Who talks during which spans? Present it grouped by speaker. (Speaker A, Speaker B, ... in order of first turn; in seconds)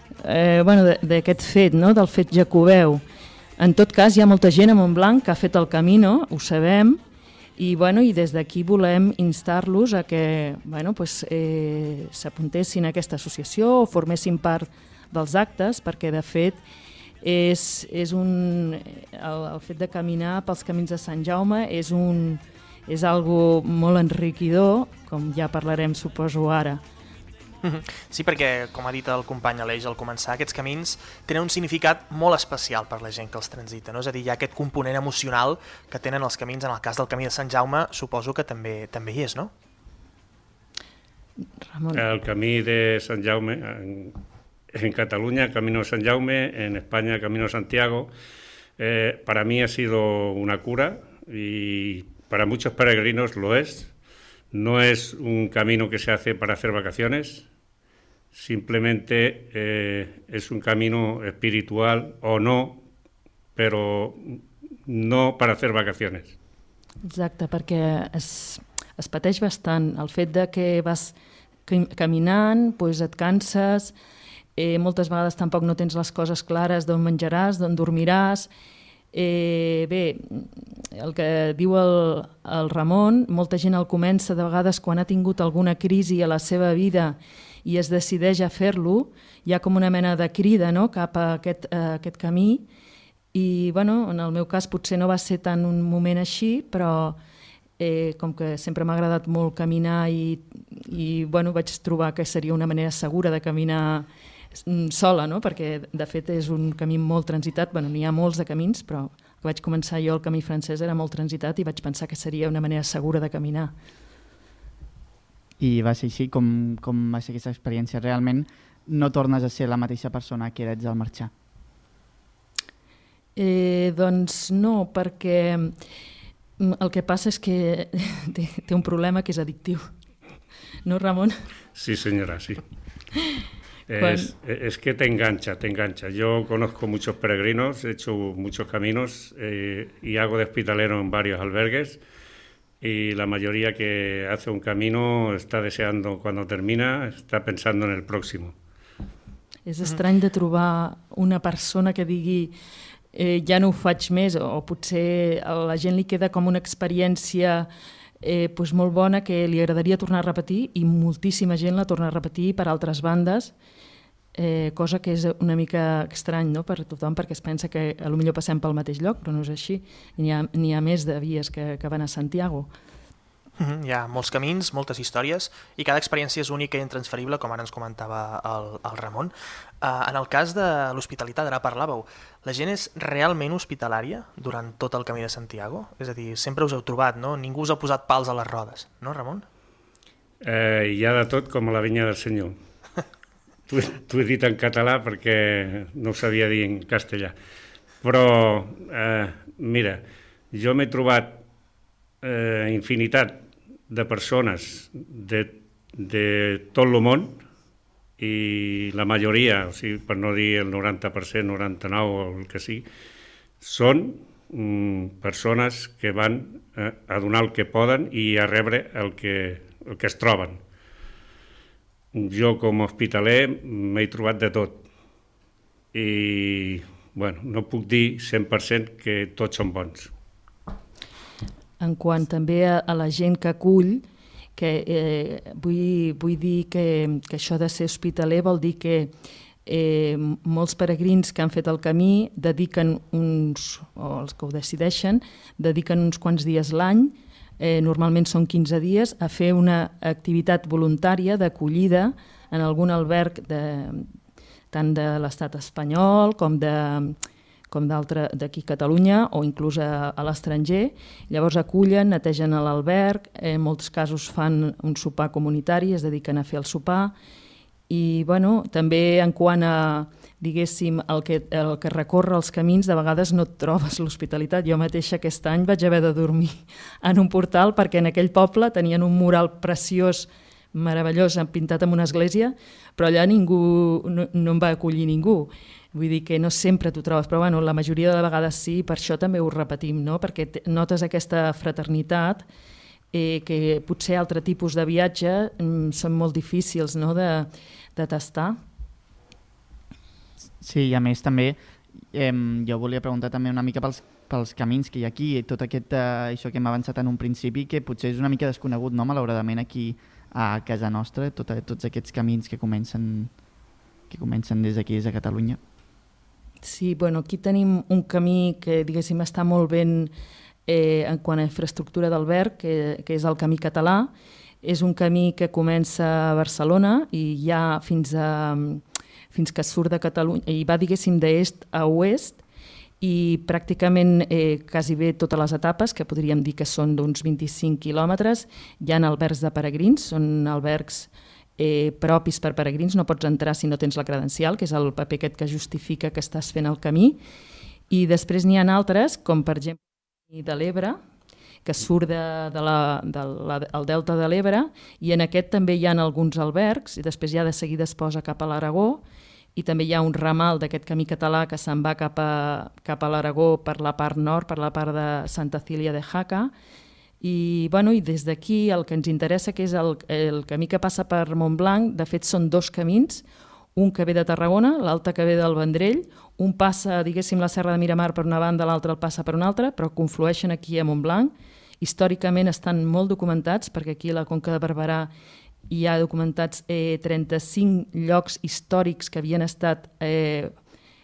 Speaker A: 0.2-3.0, 3.6-7.0, 7.6-16.6, 17.2-26.8, 41.7-42.0, 67.0-71.1, 71.7-73.9, 74.5-78.5, 79.1-92.6, 93.3-97.2, 97.8-104.1, 104.6-113.7, 123.3-125.8, 126.6-129.9, 130.8-131.4, 134.0-134.3, 149.7-152.5, 153.1-157.7, 158.2-163.5, 164.3-172.7, 231.8-234.0, 234.6-239.1, 239.7-254.1, 254.7-257.2, 257.7-267.1, 267.9-292.4, 293.1-298.6, 316.6-320.1, 320.7-324.1, 324.6-332.4, 333.0-347.2, 347.9-349.8, 350.3-351.0, 351.6-359.0, 359.6-366.5, 367.2-373.2, 373.8-385.1, 385.7-390.5
Speaker B: 27.6-39.5, 173.6-189.4
Speaker C: 41.9-44.2, 44.7-48.1, 48.8-53.9, 54.5-57.5, 58.3-62.8, 63.5-66.3, 131.7-132.6, 133.9-142.0, 142.8-148.5, 190.4-192.5, 193.7-197.3, 198.0-201.4, 202.2-207.4, 208.2-212.8, 213.6-220.6, 222.1-224.8, 225.9-230.1
Speaker D: 115.6-121.3, 300.6-313.3, 314.1-315.6